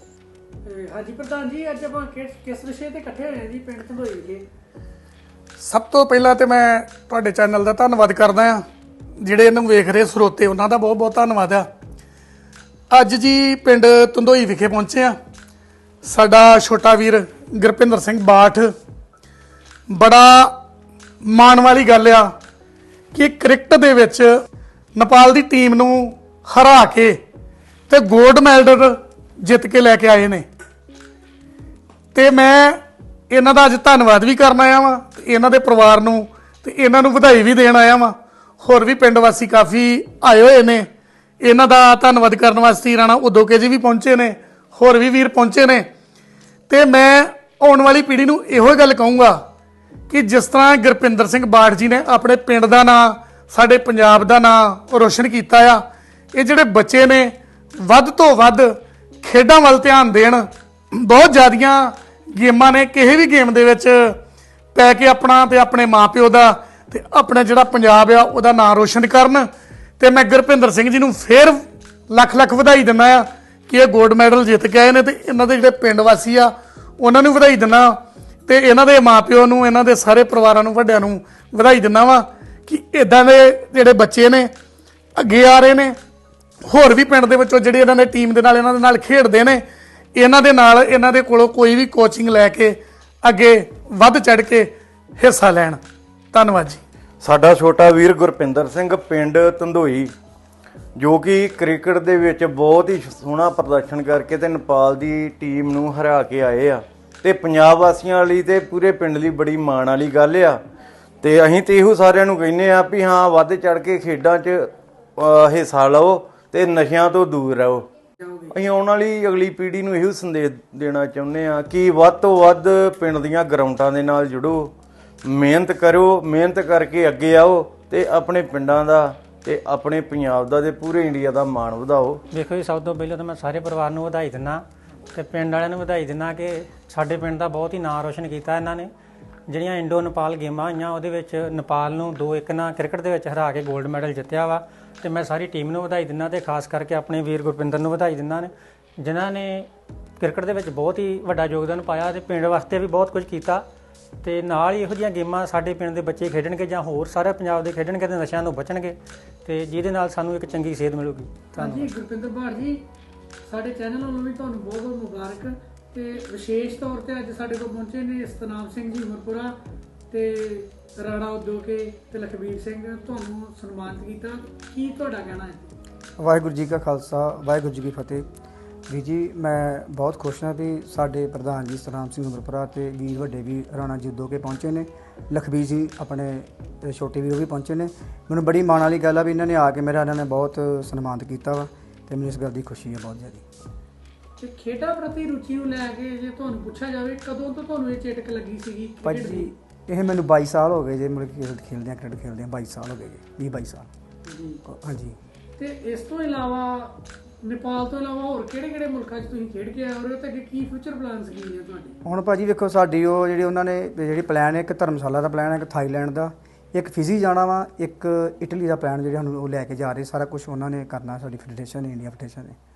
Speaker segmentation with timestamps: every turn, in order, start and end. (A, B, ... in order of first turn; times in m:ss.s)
0:00.7-0:04.4 A
0:05.6-0:08.6 B
0:09.2-0:11.7 B
0:12.9-0:15.1 B
0:16.0-0:18.7 B
0:19.9-0:20.5 B
0:21.2-0:22.3 B
0:23.1-0:24.3 B
0:24.9-0:27.2 B
0:27.9-0:30.4 B
0:32.1-0:32.8 B
0:33.3-0:40.9 B
0:41.4-0:45.9 B
0:46.7-0:49.4 B
0:50.1-0:55.8 B
0:56.3-1:04.2 B
1:04.7-1:09.5 B
1:10.0-1:17.9 B
1:18.5-1:24.5 B
1:25.2-1:26.0 B
1:26.6-1:29.6 B
1:30.2-1:35.8 B
1:36.3-1:36.8 B
1:37.2-1:40.1 C
1:41.0-1:50.6 C
1:51.2-1:57.9 C
1:58.2-1:58.5 A
1:58.5-2:04.7 C
2:05.2-2:12.2 C
2:12.3-2:14.6 D
2:15.1-2:18.9 D
2:19.5-2:29.7 D
2:30.2-2:33.6 D
2:34.2-2:41.3 D
2:41.5-2:41.9 E
2:41.6-2:42.8 A
2:43.5-2:49.5 A
2:50.1-2:55.7 A
2:56.2-2:58.2 E
2:58.9-3:13.4 E
3:14.4-3:19.5 A
3:19.0-3:23.9 E
3:24.3-3:24.6 A
3:24.6-3:25.2 E
3:25.6-3:32.0 A
3:32.0-3:42.6 E